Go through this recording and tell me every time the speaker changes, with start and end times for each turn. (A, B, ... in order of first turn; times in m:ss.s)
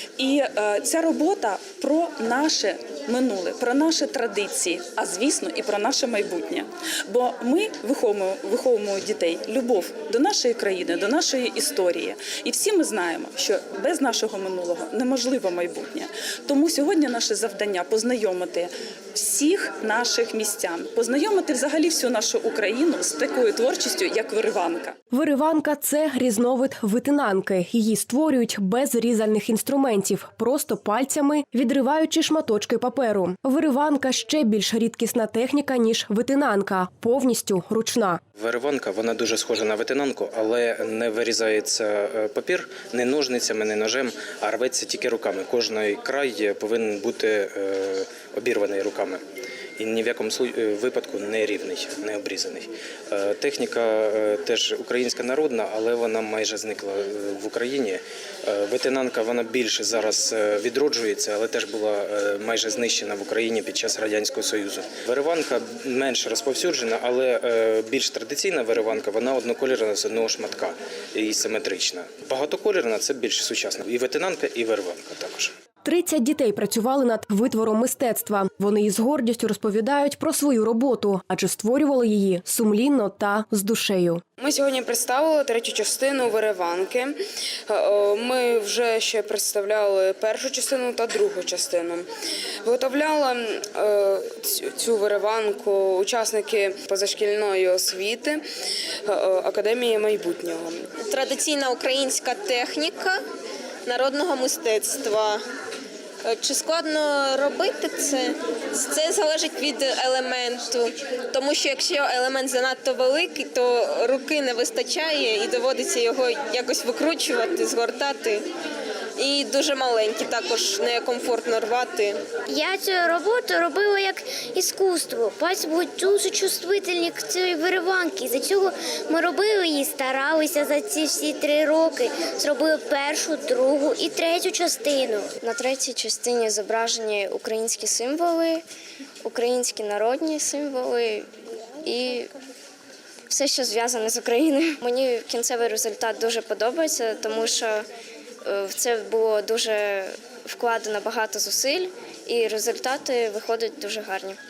0:00.2-0:25.0 A
0:25.1-0:38.2 B
0:38.4-0:49.2 C
0:49.8-1:15.5 C
1:15.8-1:24.2 B
1:24.4-1:27.2 D
1:27.7-1:32.1 D
1:32.6-1:38.4 D
1:39.0-1:40.9 D
1:41.0-1:43.2 E
1:43.8-1:45.4 E
1:46.2-1:58.4 E
1:59.2-2:02.2 E
2:02.5-2:15.3 F
2:15.4-2:18.6 G
2:19.2-2:21.3 G
2:21.8-2:22.3 G
2:23.3-2:27.9 G
2:28.4-2:34.4 G